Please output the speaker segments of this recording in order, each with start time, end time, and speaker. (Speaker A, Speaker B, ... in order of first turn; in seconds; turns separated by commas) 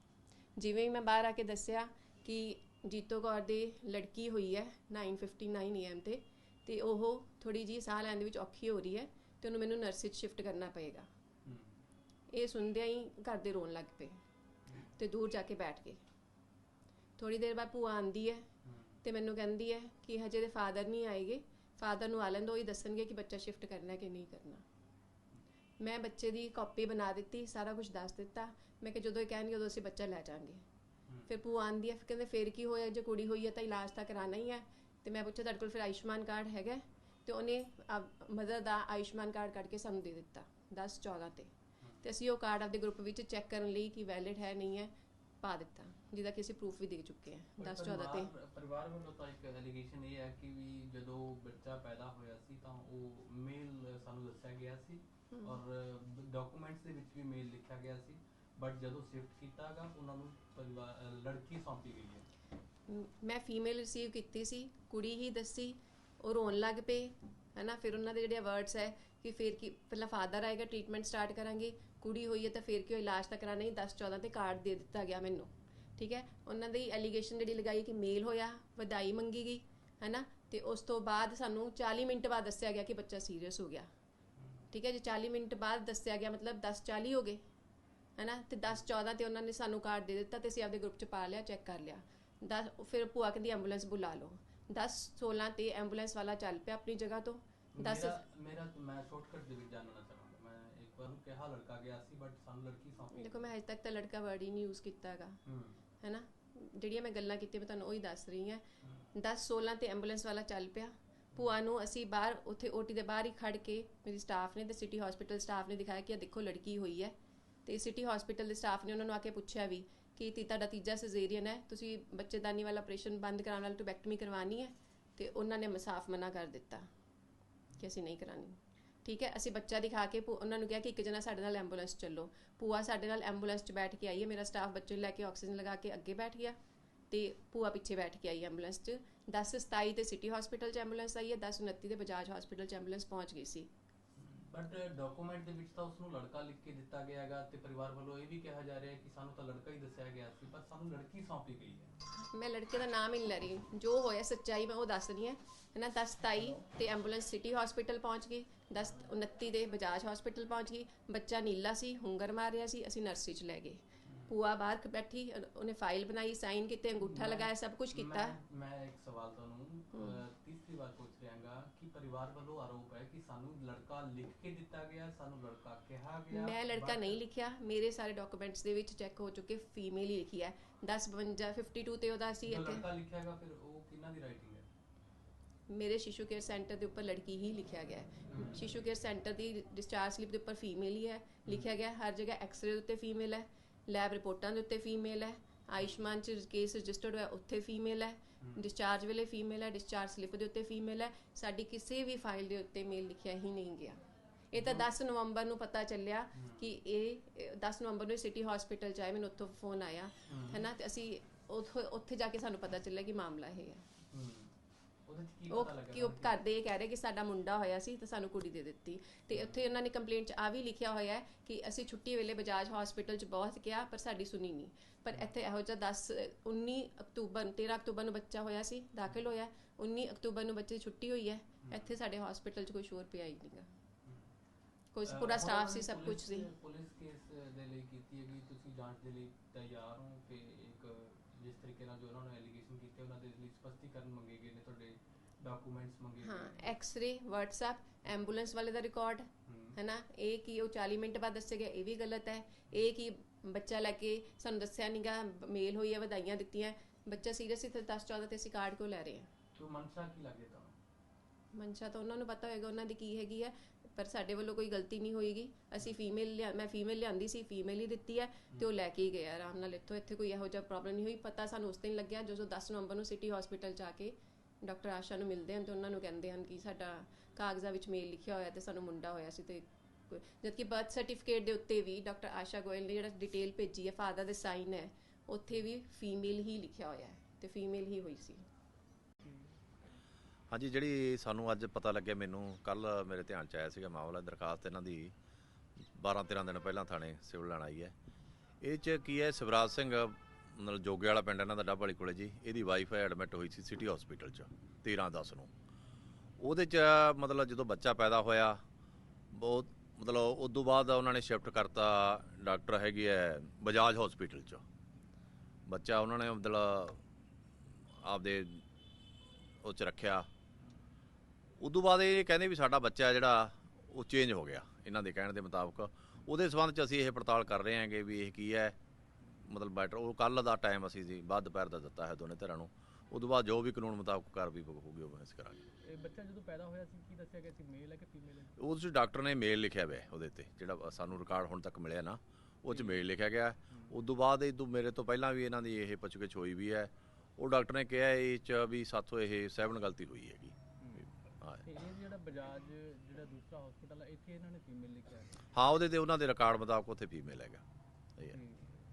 Speaker A: 0.6-11.1, Speaker B: 11.4-11.8, Speaker A: 12.3-14.2, Speaker A: 14.9-16.0, Speaker A: 17.2-18.4, Speaker B: 18.6-19.0, Speaker A: 19.0-24.6, Speaker A: 25.8-30.6, Speaker A: 31.3-48.3, Speaker B: 47.6-62.2, Speaker A: 55.3-55.6, Speaker A: 62.9-83.9, Speaker B: 84.3-84.7, Speaker A: 84.7-87.4, Speaker A: 88.2-98.2, Speaker B: 97.8-103.5, Speaker A: 103.1-105.3, Speaker B: 105.5-105.8, Speaker A: 106.0-108.6, Speaker A: 109.2-126.8, Speaker A: 127.8-136.6, Speaker A: 137.1-143.7, Speaker B: 144.2-151.9, Speaker A: 152.2-168.4, Speaker B: 164.1-164.3, Speaker B: 167.0-177.2, Speaker A: 169.9-170.2, Speaker A: 176.3-182.8, Speaker B: 182.5-184.7, Speaker A: 185.7-204.0, Speaker B: 188.3-188.6, Speaker A: 204.5-213.8, Speaker B: 204.6-204.8, Speaker B: 206.3-206.7, Speaker B: 210.3-210.6, Speaker B: 214.1-214.5, Speaker B: 215.1-216.3, Speaker A: 215.5-233.7, Speaker B: 219.3-219.6, Speaker B: 231.6-231.9, Speaker B: 234.0-234.3, Speaker A: 234.9-236.5, Speaker B: 235.1-246.7, Speaker A: 246.2-249.2, Speaker B: 249.5-249.8, Speaker A: 249.8-259.3, Speaker B: 259.5-260.7, Speaker A: 261.5-288.4, Speaker C: 290.5-295.1, Speaker C: 295.9-297.9, Speaker C: 298.6-305.5, Speaker C: 306.4-308.6, Speaker C: 309.3-314.6, Speaker C: 315.7-317.0, Speaker C: 318.0-318.6, Speaker C: 319.6-320.3, Speaker C: 321.6-328.8, Speaker C: 329.4-335.6, Speaker D: 335.9-338.4, Speaker B: 336.0-336.5, Speaker B: 337.0-338.3, Speaker C: 338.6-350.6, Speaker D: 342.7-343.1, Speaker B: 351.6-355.4, Speaker D: 353.0-354.0, Speaker C: 355.5-357.6